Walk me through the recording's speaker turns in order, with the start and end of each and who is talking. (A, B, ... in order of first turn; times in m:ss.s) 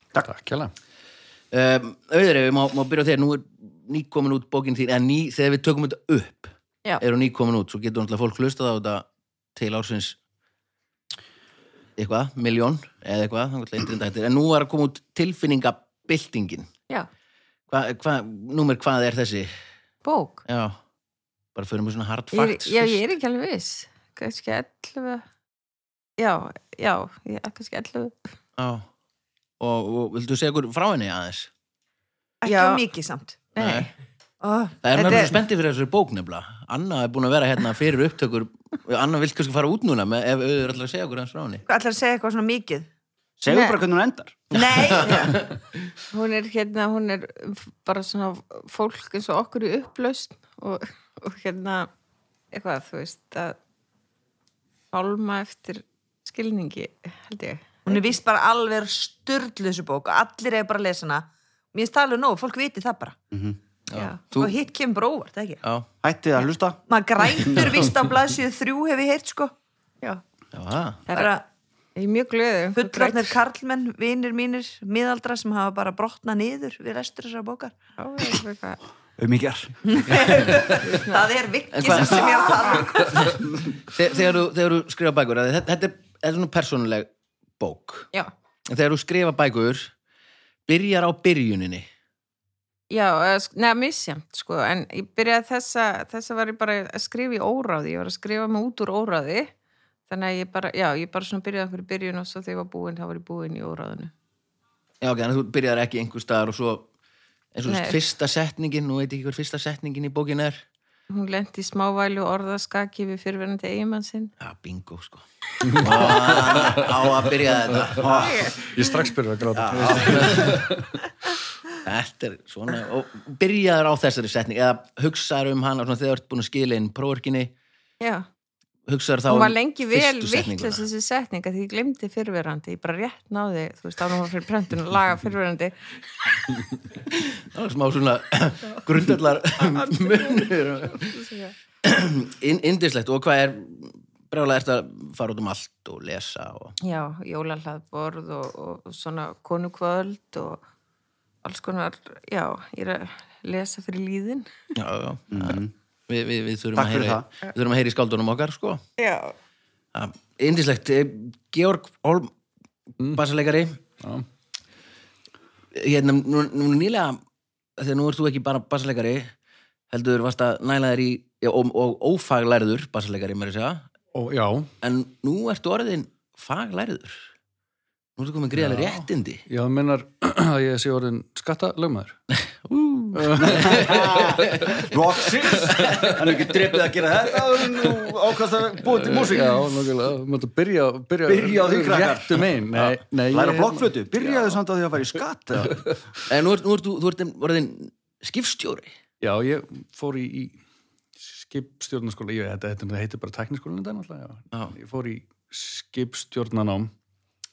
0:00.2-0:00.7 A
0:01.5-0:10.2 B
0:12.0-0:16.7 B
0:17.7-0:19.5 B
0:20.0-0:20.4 C
0:20.4-0:20.8 B
0:21.5-0:23.0 B
0:22.3-0:25.2 C
0:26.2-0:28.2 C
0:28.6-0:28.8 B
0:29.6-0:31.5 B
0:32.4-0:33.4 D
0:32.4-0:32.8 C
0:33.6-0:33.9 C
0:33.6-0:33.9 B
0:34.4-0:35.3 D
0:34.8-0:41.6 B
0:34.9-0:35.3 C
0:41.7-0:42.9 D
0:43.4-0:44.7 E
0:43.5-0:43.8 C
0:44.5-0:45.4 D
0:44.7-0:45.6 B
0:46.1-0:51.9 C
0:52.5-0:53.6 C
0:54.9-0:58.1 C
0:57.8-1:03.2 D
1:03.3-1:03.6 E
1:03.9-1:04.6 B
1:04.4-1:05.6 D
1:05.6-1:05.9 B
1:06.0-1:06.8 E
1:06.9-1:09.5 D
1:10.5-1:11.0 B
1:11.1-1:11.4 D
1:12.0-1:13.3 C
1:12.7-1:17.7 D
1:18.0-1:18.8 C
1:19.2-1:20.8 E
1:19.8-1:23.3 D
1:20.8-1:21.2 C
1:21.7-1:28.1 B
1:22.0-1:22.7 E
1:28.7-1:29.9 B
1:30.7-1:31.9 B
1:32.9-1:39.5 C
1:40.1-1:44.1 C
1:45.0-1:46.9 B
1:47.5-1:50.6 B
1:47.6-1:48.0 C
1:51.1-1:54.3 C
1:54.4-1:58.5 B
1:55.6-1:57.1 A
1:58.0-1:58.5 E
1:58.1-1:58.9 C
1:58.6-2:01.0 A
1:59.5-2:00.6 B
1:59.7-2:00.5 E
2:01.8-2:07.5 B
2:08.0-2:08.2 C
2:08.9-2:10.8 B
2:09.3-2:15.7 C
2:17.1-2:21.2 B
2:19.6-2:21.5 C
2:21.8-2:26.8 B
2:26.8-2:30.6 C
2:31.4-2:34.5 C
2:34.7-2:38.8 B
2:35.3-2:35.7 E
2:36.8-2:37.3 E
2:39.0-2:39.3 C
2:39.9-2:42.3 B
2:43.1-2:43.8 B
2:44.0-2:44.2 A
2:45.7-2:47.2 B
2:47.8-2:49.3 B
2:49.9-2:53.9 B
2:54.1-2:54.7 A
2:54.8-2:57.3 B
2:58.2-2:59.4 B
2:58.6-3:02.2 A
3:02.4-3:04.9 B
3:03.1-3:04.6 A
3:03.4-3:09.8 E
3:05.6-3:06.3 A
3:07.7-3:08.1 A
3:08.8-3:14.6 A
3:11.2-3:15.9 E
3:15.6-3:16.0 A
3:16.3-3:18.9 B
3:19.2-3:20.6 A
3:21.2-3:26.9 A